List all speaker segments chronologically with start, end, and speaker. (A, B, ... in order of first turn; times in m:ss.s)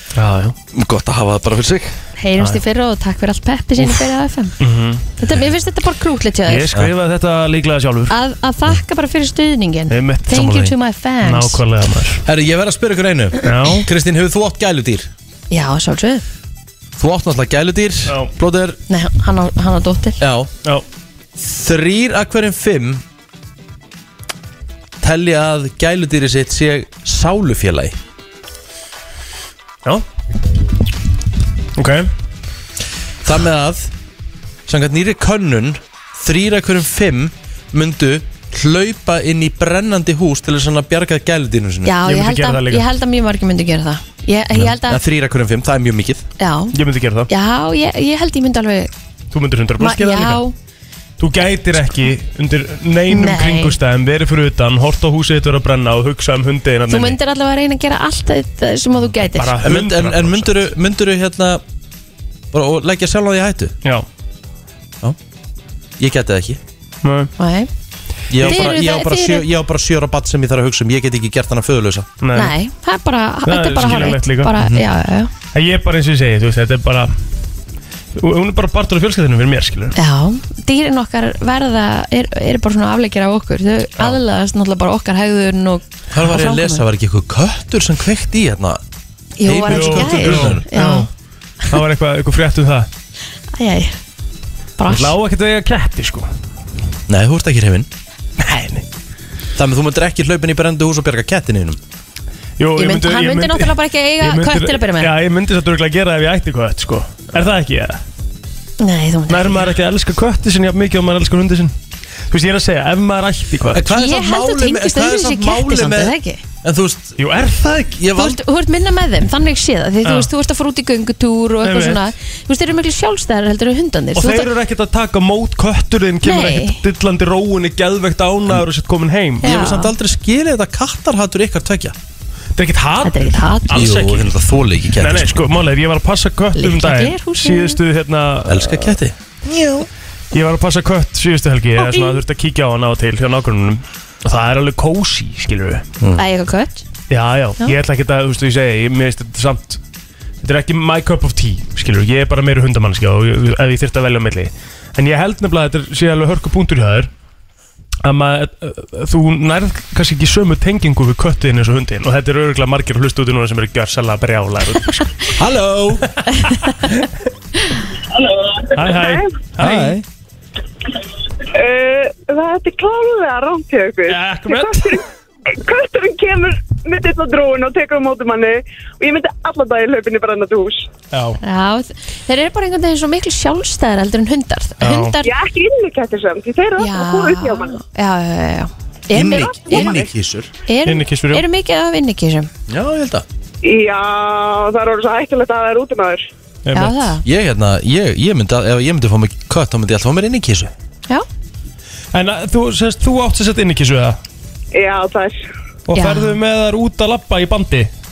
0:00.1-0:00.6 A
0:00.7-0:01.9 B
0:02.2-0:04.5 C
0:04.6-0:05.1 A
0:05.2-0:06.7 C
0:06.5-0:08.1 A
0:08.1-0:11.6 C
0:09.9-0:12.2 A
0:12.2-0:15.1 B
0:13.4-0:13.8 A
0:15.5-0:16.2 C
0:17.0-0:18.8 B
0:18.9-0:20.2 C
0:20.2-0:20.5 B
0:21.4-0:23.0 B
0:25.0-0:28.0 B
0:31.8-0:32.1 A
0:33.2-0:33.9 B
0:34.7-0:41.9 B
0:41.8-0:45.0 C
0:42.0-0:42.8 A
0:44.5-0:46.2 B
0:46.4-0:46.7 C
0:46.7-0:47.3 A
0:47.3-0:48.9 C
0:49.3-0:50.4 A
0:49.8-0:50.5 C
0:51.2-0:57.2 A
0:53.1-0:53.8 C
0:56.9-0:59.6 C
0:59.3-1:00.6 A
0:59.6-1:01.6 B
1:02.5-1:03.7 B
1:06.0-1:06.6 B
1:07.0-1:07.3 A
1:07.4-1:07.7 C
1:08.3-1:12.1 B
1:08.4-1:09.4 C
1:12.2-1:12.5 A
1:12.3-1:15.3 C
1:13.4-1:14.5 A
1:14.6-1:14.8 B
1:15.5-1:17.1 A
1:18.1-1:19.9 A
1:20.0-1:26.8 C
1:26.1-1:28.8 B
1:29.4-1:31.1 C
1:29.4-1:30.6 B
1:29.7-1:31.1 A
1:31.7-1:32.9 A
1:33.5-1:34.0 C
1:34.8-1:35.1 C
1:34.9-1:36.3 A
1:37.1-1:37.9 B
1:38.4-1:38.8 A
1:39.5-1:41.8 B
1:42.6-1:48.0 A
1:42.8-1:45.1 C
1:48.8-1:49.7 C
1:49.3-1:51.7 A
1:52.3-1:53.8 A
1:53.7-1:57.2 B
1:53.9-1:56.4 C
1:57.2-1:57.9 A
1:57.8-1:58.4 B
1:58.1-2:04.5 C
2:00.0-2:00.3 A
2:01.6-2:02.1 A
2:04.1-2:09.5 A
2:06.2-2:06.8 C
2:09.4-2:09.9 C
2:09.4-2:11.9 B
2:12.6-2:14.3 A
2:13.0-2:13.9 C
2:13.7-2:15.5 B
2:15.0-2:19.0 A
2:16.6-2:17.8 C
2:18.5-2:19.8 B
2:20.3-2:25.8 A
2:21.8-2:22.2 C
2:26.2-2:26.8 C
2:27.1-2:29.8 A
2:30.4-2:37.1 A
2:38.0-2:45.3 A
2:45.4-2:46.1 B
2:46.2-2:47.0 A
2:48.2-2:49.4 D
2:48.7-2:50.0 A
2:49.6-2:50.0 B
2:51.5-3:00.9 D
2:54.1-2:55.0 A
3:01.1-3:01.4 A
3:01.4-3:05.3 C
3:04.8-3:05.2 A
3:05.2-3:07.8 D
3:06.8-3:10.0 C
3:09.1-3:10.5 B
3:09.2-3:10.1 D
3:10.7-3:12.5 C
3:10.8-3:11.4 A
3:12.7-3:13.2 B
3:13.6-3:16.3 D
3:16.6-3:17.2 A
3:16.7-3:17.2 C
3:17.2-3:20.7 B
3:22.1-3:24.2 A
3:24.7-3:25.4 D
3:25.9-3:27.9 A
3:25.9-3:26.4 C